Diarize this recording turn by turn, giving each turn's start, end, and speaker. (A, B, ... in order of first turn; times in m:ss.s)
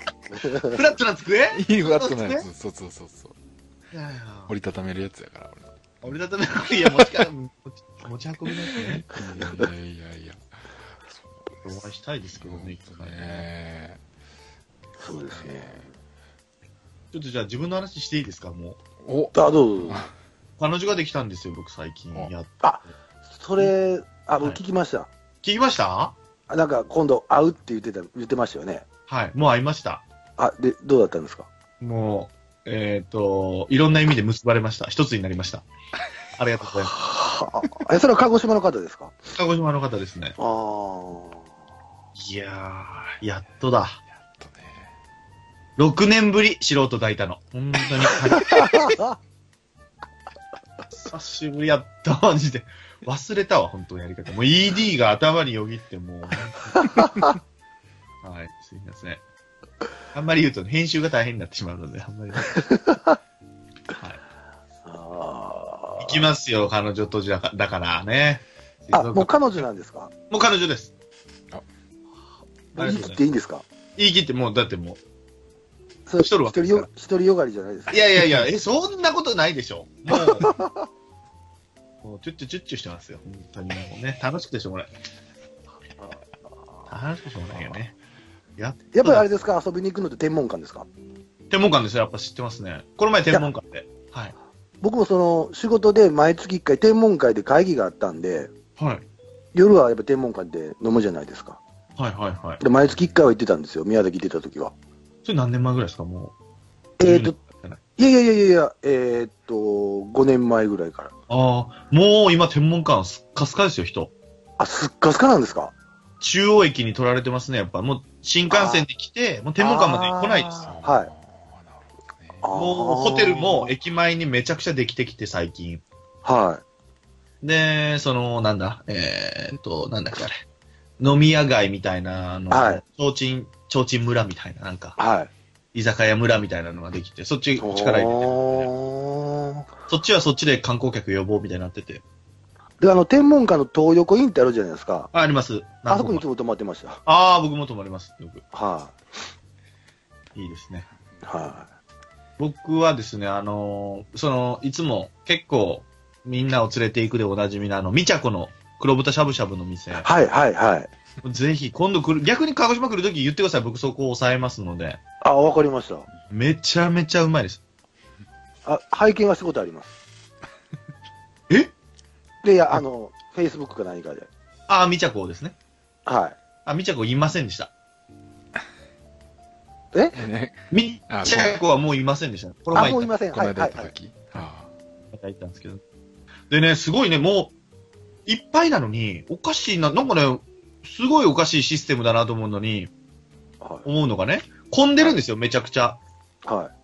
0:00.4-0:00.8 A
0:00.7-0:02.4 B
0:01.5-0:03.3 C
0:03.9-0:04.5 B
0:04.5-0:06.1 C
0:06.0-0:09.1 B
0:06.8-0:07.2 C
0:08.7-0:11.8 C
0:11.6-0:13.5 B
0:12.3-0:14.0 C
0:15.0-0:15.8 A
0:15.2-0:15.9 C
0:17.1-0:18.8 B
0:19.0-0:20.1 C
0:19.3-0:20.0 A
0:20.6-0:22.6 B
0:22.6-0:25.1 A
0:25.4-0:26.2 B
0:26.5-0:28.8 A
0:29.1-0:30.0 B
0:30.4-0:31.5 A
0:31.8-0:35.6 B
0:36.4-0:36.9 B
0:36.9-0:39.1 A
0:39.3-0:40.4 B
0:40.4-0:41.4 A
0:42.2-0:44.0 B
0:44.1-0:44.9 C
0:45.8-0:48.9 B
0:48.5-0:49.1 A
0:50.9-0:57.2 B
0:58.2-0:59.2 B
1:00.1-1:02.6 B
1:02.5-1:03.2 A
1:03.9-1:04.2 B
1:04.8-1:06.3 A
1:06.0-1:09.6 B
1:08.9-1:10.1 A
1:10.3-1:10.9 B
1:12.7-1:13.6 A
1:12.8-1:13.2 B
1:14.0-1:15.0 B
1:16.0-1:18.0 A
1:16.2-1:16.9 B
1:17.9-1:20.5 B
1:20.1-1:20.9 A
1:22.0-1:24.9 B
1:26.9-1:27.9 B
1:28.6-1:29.2 B
1:28.9-1:30.9 A
1:31.5-1:34.3 B
1:34.8-1:38.5 A
1:38.8-1:39.0 B
1:39.5-1:41.6 A
1:42.0-1:42.6 B
1:42.6-1:44.7 A
1:45.2-1:46.3 B
1:47.0-1:47.4 A
1:47.0-1:47.8 B
1:48.0-1:51.1 A
1:51.3-1:54.1 B
1:54.6-1:55.7 A
1:56.2-2:00.7 B
1:58.5-1:58.8 A
1:59.6-2:01.1 A
2:00.6-2:02.5 C
2:02.4-2:03.7 A
2:02.5-2:05.8 B
2:06.2-2:06.6 A
2:07.4-2:10.4 B
2:11.0-2:15.0 B
2:12.5-2:12.8 A
2:15.0-2:15.3 A
2:15.7-2:18.7 B
2:17.6-2:19.7 A
2:19.9-2:22.0 B
2:22.8-2:25.1 A
2:25.1-2:26.2 B
2:25.9-2:27.0 A
2:27.0-2:28.4 B
2:28.5-2:28.9 A
2:30.4-2:30.8 B
2:31.2-2:31.7 A
2:32.4-2:40.1 B
2:40.0-2:40.9 A
2:41.2-2:45.0 B
2:45.2-2:46.1 A
2:46.3-2:47.6 B
2:48.6-2:49.9 A
2:52.4-2:54.3 A
2:54.7-2:55.6 B
2:56.0-2:56.4 A
2:56.6-2:57.7 B
3:00.1-3:01.6 C
3:00.7-3:03.1 B
3:02.7-3:03.9 A
3:02.7-3:04.7 C
3:05.1-3:05.8 B
3:06.5-3:07.5 B
3:08.3-3:12.9 B
3:13.6-3:13.8 A
3:13.8-3:16.0 B
3:16.4-3:16.7 A